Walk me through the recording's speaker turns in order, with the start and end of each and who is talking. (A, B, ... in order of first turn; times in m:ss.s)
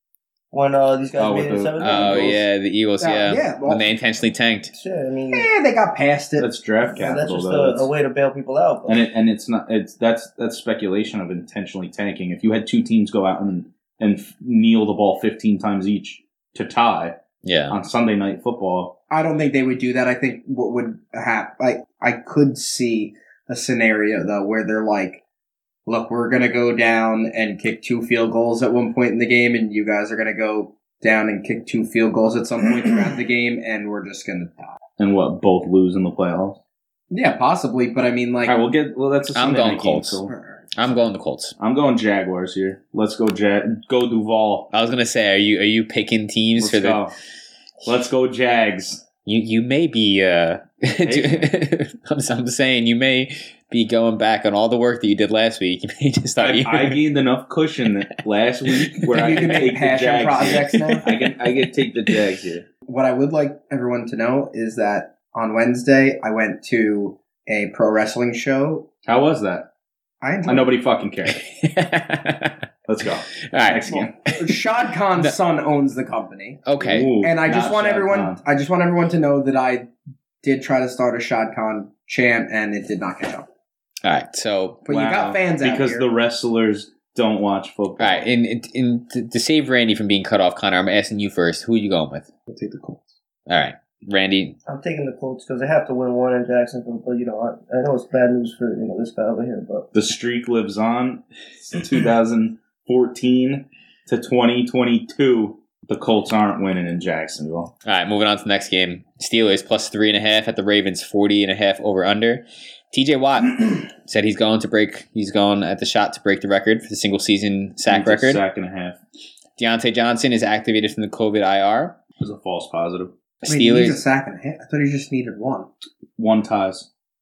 0:00.5-0:02.4 A
0:01.2-0:02.4 B
0:01.8-0:04.7 C
0:03.0-0:03.9 D
0:04.7-0:05.5 A
0:05.3-0:06.5 D
0:06.4-0:07.9 B
0:06.9-0:09.0 A
0:08.8-0:17.1 B
0:17.4-0:17.8 C
0:17.7-0:19.0 B
0:19.1-0:25.2 D
0:25.8-0:34.7 D
0:35.0-0:36.6 B
0:37.1-0:38.6 D
0:38.4-0:40.3 B
0:39.3-0:40.2 C
0:40.3-0:40.7 D
0:40.7-0:41.5 C
0:41.6-0:44.7 B
0:44.7-0:47.0 C
0:46.6-0:47.1 B
0:47.8-0:49.0 B
0:49.2-0:57.0 C
0:51.0-0:51.5 B
0:56.4-1:02.6 B
0:58.8-0:59.6 C
0:59.1-1:01.1 D
1:00.3-1:01.2 C
1:02.9-1:08.9 D
1:09.0-1:09.7 B
1:10.2-1:10.7 D
1:10.4-1:11.4 B
1:11.3-1:12.6 C
1:12.9-1:14.1 B
1:13.4-1:14.5 C
1:13.9-1:16.6 D
1:16.6-1:17.2 C
1:16.8-1:18.4 B
1:17.2-1:19.9 D
1:20.4-1:23.5 D
1:24.0-1:24.9 C
1:24.8-1:26.0 D
1:24.9-1:28.2 B
1:28.0-1:32.3 C
1:32.5-1:33.0 D
1:33.5-1:34.6 C
1:34.6-1:39.9 A
1:39.9-1:47.7 B
1:47.8-1:58.4 C
1:57.9-1:59.0 B
1:59.6-2:02.0 C
2:02.2-2:03.1 B
2:03.4-2:04.0 C
2:03.5-2:05.7 D
2:06.2-2:06.9 B